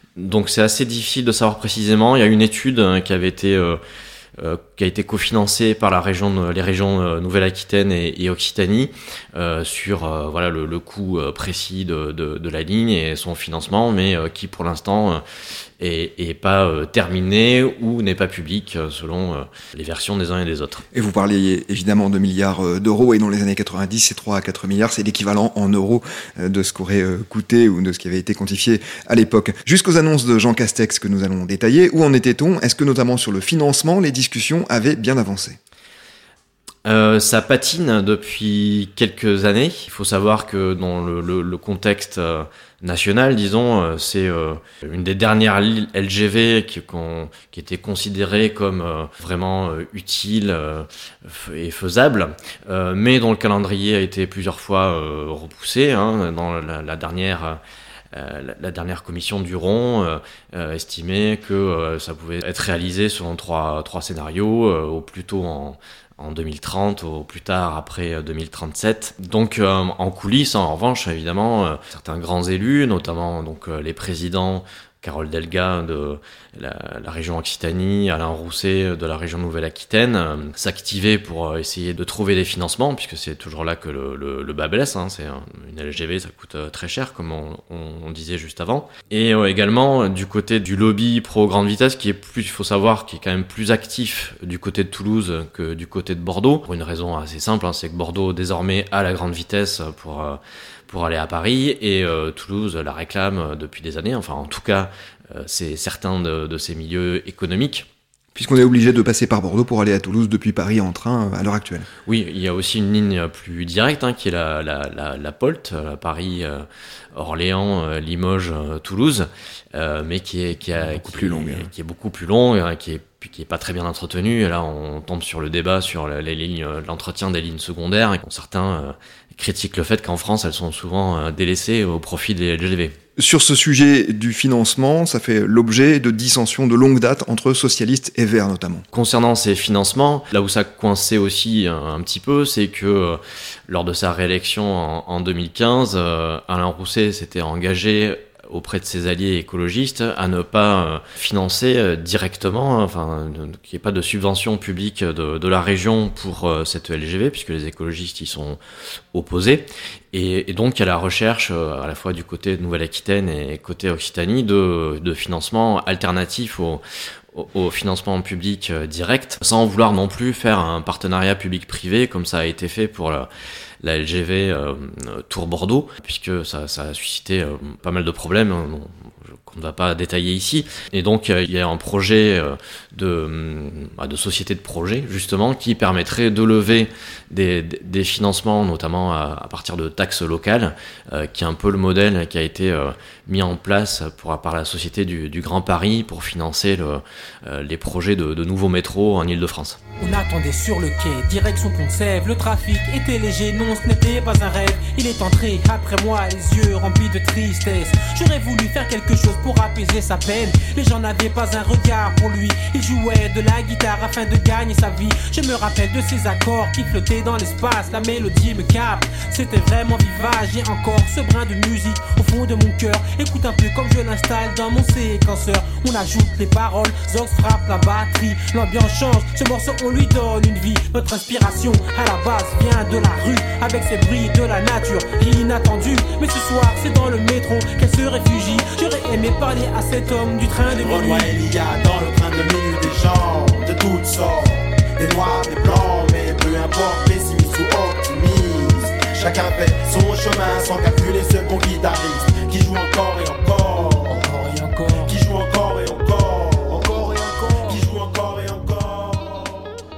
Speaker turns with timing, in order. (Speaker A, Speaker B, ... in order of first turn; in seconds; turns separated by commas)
Speaker A: 0.1-3.8, Speaker A: 4.4-15.2, Speaker A: 15.8-20.8, Speaker B: 20.9-35.6, Speaker A: 36.8-57.6, Speaker A: 58.1-107.9, Speaker B: 108.3-111.9, Speaker A: 112.0-132.9, Speaker B: 120.9-121.7, Speaker B: 133.2-138.8, Speaker A: 138.9-158.6, Speaker A: 159.1-166.8, Speaker A: 167.3-173.3, Speaker A: 173.8-178.9, Speaker A: 179.4-199.8, Speaker C: 200.0-241.3, Speaker D: 240.7-254.2, Speaker C: 254.2-255.1, Speaker D: 255.0-259.7